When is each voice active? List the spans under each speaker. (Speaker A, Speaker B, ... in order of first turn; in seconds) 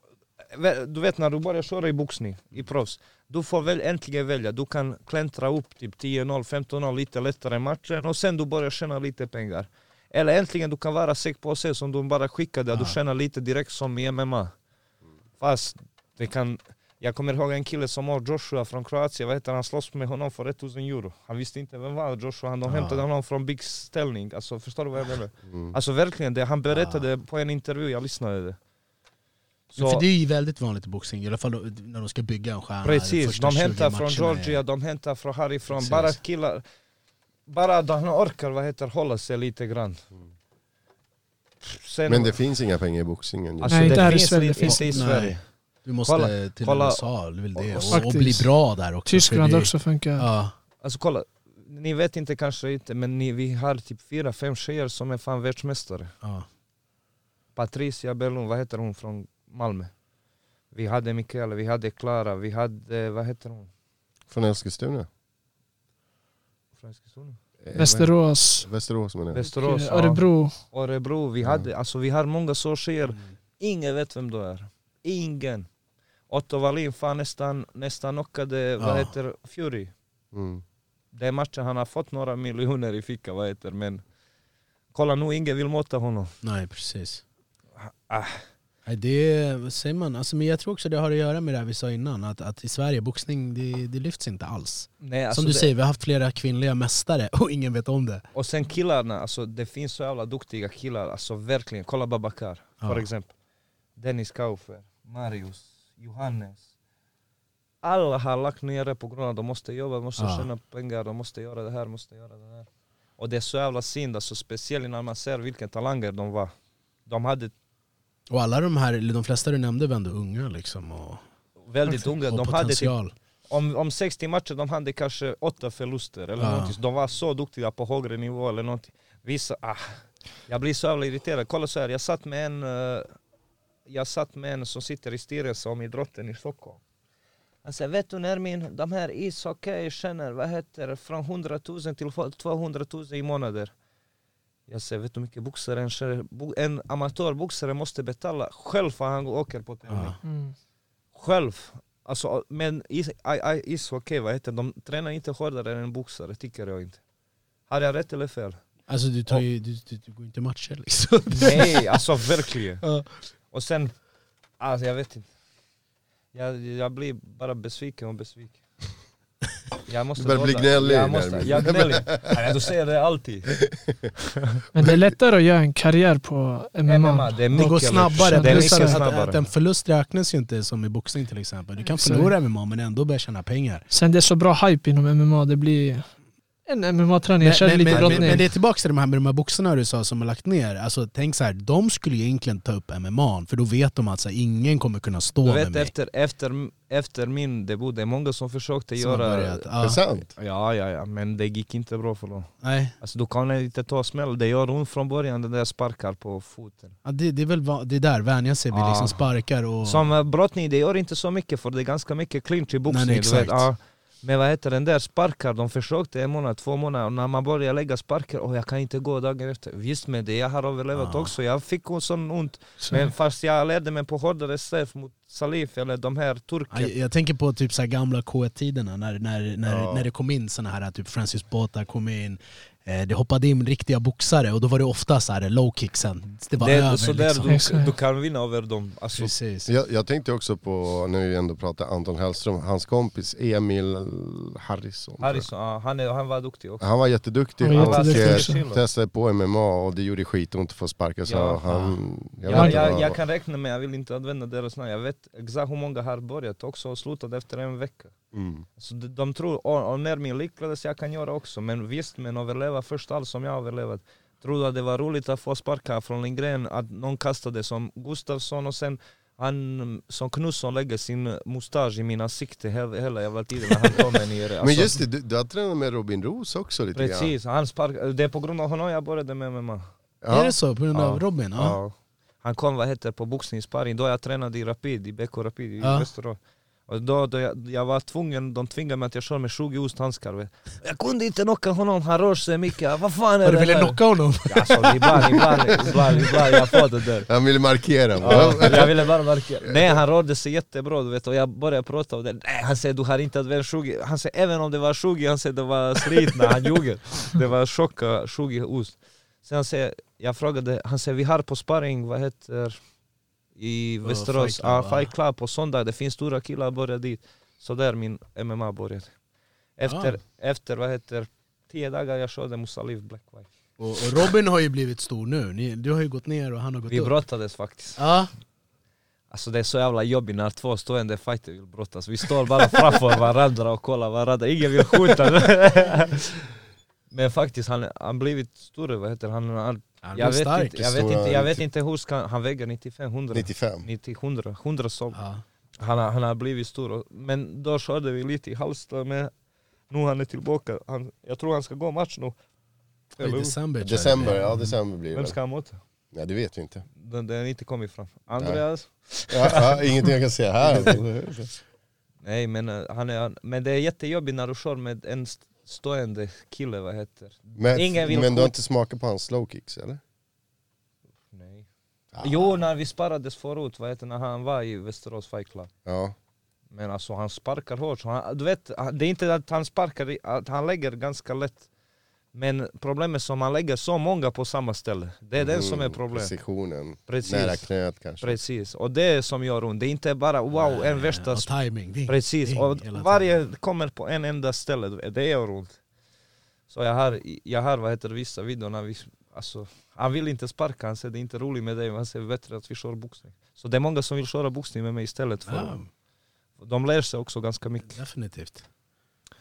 Speaker A: 0.5-14.5, 15.4-28.6, 29.7-30.1, 32.8-36.6, 37.5-40.0, 41.6-42.4, 43.6-45.4, 46.0-48.0, 50.8-56.1, 57.6-59.9, 60.7-63.7, 66.8-67.4, 69.3-75.7, 76.3-79.9, 81.1-84.0, 84.9-86.3, 87.8-88.4, 95.0-95.7, 98.3-103.3, 104.0-106.7, 107.8-116.5, 117.1-117.5, 121.7-122.9, 123.5-133.1, 133.9-136.8, 137.6-143.7, 144.7-150.2, 151.1-157.0, 157.7-158.6, 161.4-162.8, 163.5-164.0, 164.6-165.3, 166.3-168.6, 169.9-173.6, 176.9-179.4, 187.9-188.4, 195.4-199.7, 200.4-206.9, 208.7-209.2, 209.8-226.9, 236.6-239.3, 245.2-246.8, 247.7-248.8, 251.3-251.9, 252.4-258.1, 258.8-275.0, 276.9-279.9, 280.9-297.3, 298.2-312.8, 313.6-319.1, 319.8-323.5, 326.9-328.0, 329.3-336.5, 337.1-345.2, 345.8-349.3, 349.9-352.4, 353.1-353.6, 355.1-355.8, 357.0-359.8, 360.7-361.0, 362.2-368.6, 371.3-371.7, 372.2-375.7, 376.7-381.6, 382.3-386.3, 387.1-387.7, 388.2-391.5, 392.1-395.8, 396.7-405.8, 406.6-408.0
Speaker B: 22.7-23.1, 26.7-27.1, 29.8-34.6, 35.7-36.2, 44.6-50.5, 56.2-56.5, 73.1-73.3, 78.8-79.1, 86.4-87.2, 88.8-98.2, 110.2-110.5, 118.3-121.2, 121.9-123.1, 126.4-126.8, 149.9-150.2, 158.9-161.9, 177.5-183.9, 187.4-195.9, 199.0-200.0, 202.6-202.9, 207.0-210.1, 212.9-213.7, 220.9-221.3, 226.7-237.6, 239.2-239.7, 280.3-281.8, 285.8-286.1, 293.4-296.6, 298.3-298.6, 314.1-315.1, 319.9-320.2, 323.8-327.2, 328.0-328.3, 340.0-340.8, 345.1-345.4, 353.2-354.7, 390.5-393.3, 405.5-405.9, 407.9-408.6
Speaker C: 25.5-25.8, 42.1-44.2, 64.3-65.1, 67.6-69.4, 71.4-71.7, 80.3-80.6, 170.2-172.4, 173.7-174.1, 199.8-200.3, 229.7-230.1, 239.7-245.4, 246.8-253.2, 258.3-258.6, 274.6-277.3, 280.2-280.6, 297.3-299.1, 340.8-341.6, 343.3-343.9, 353.8-355.4, 356.1-356.9, 359.3-361.6, 367.6-370.0, 372.1-372.6, 375.9-376.1, 385.4-388.4
Speaker D: 43.7-45.0, 47.9-48.5, 49.0-50.3, 67.7-68.7, 69.4-70.5, 150.2-150.5, 174.7-179.0, 181.8-182.3, 183.9-186.1, 186.7-188.5, 237.5-237.9, 247.6-248.6, 252.5-252.8